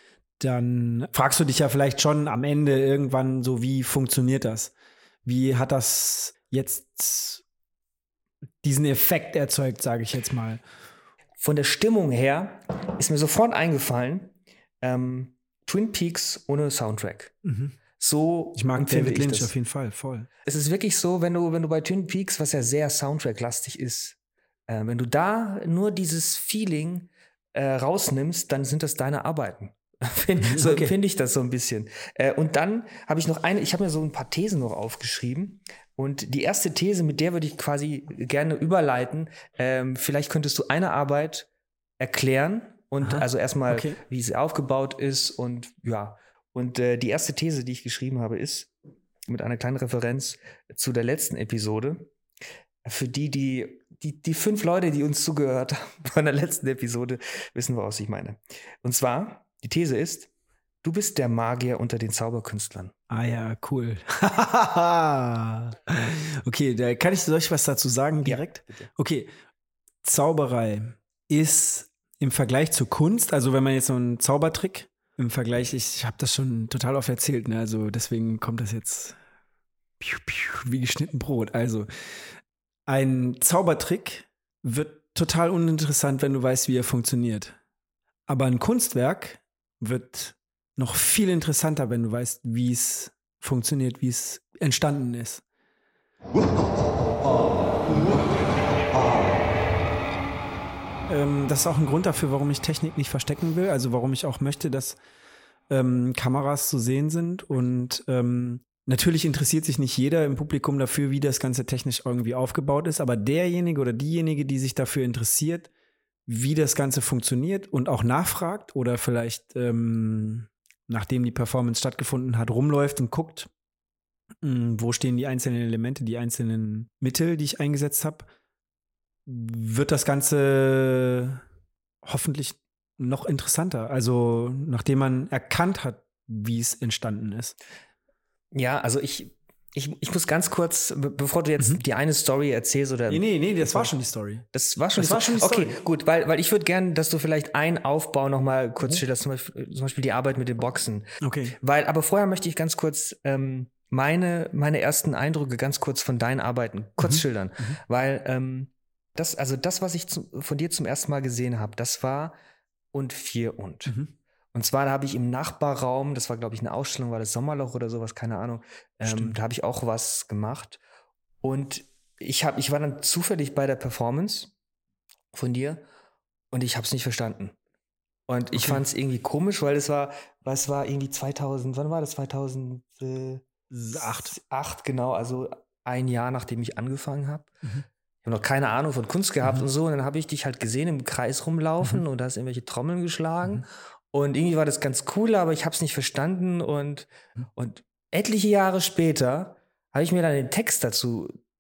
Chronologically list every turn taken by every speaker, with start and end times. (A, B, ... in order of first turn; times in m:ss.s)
0:00.4-0:04.7 A
0:05.2-0:07.4 A
0:08.6-0:10.6 A
0:11.4-0:17.3 B
0:17.4-0:17.8 A
0:18.0-0:19.5 B
0:18.6-0:20.3 A
0:20.4-0:48.7 B
0:30.4-0:30.9 A
0:43.0-0:44.0 A
0:49.3-0:52.1 B
0:52.8-1:00.3 B
1:00.8-1:02.9 B
1:03.1-1:09.3 A
1:08.2-1:08.9 B
1:10.0-1:19.2 A
1:20.0-1:21.9 A
1:22.9-1:27.6 A
1:28.3-1:35.4 A
1:41.1-1:45.0 A
1:45.7-1:55.7 A
1:56.3-2:03.5 A
2:04.4-2:08.3 A
2:09.2-2:11.4 A
2:12.0-2:17.6 A
2:18.5-2:23.9 B
2:23.1-2:24.4 A
2:24.5-2:42.4 B
2:25.0-2:25.8 A
2:31.2-2:31.6 A
2:37.0-2:37.8 A
2:42.9-2:43.9 B
2:43.9-2:44.1 A
2:44.5-2:50.8 B
2:49.0-2:49.4 A
2:51.4-2:54.5 B
2:55.3-2:55.8 B
2:56.5-2:57.6 B
2:58.3-3:03.4 B
2:58.5-2:58.8 A
3:03.7-3:04.4 A
3:04.0-3:07.5 B
3:08.2-3:21.4 B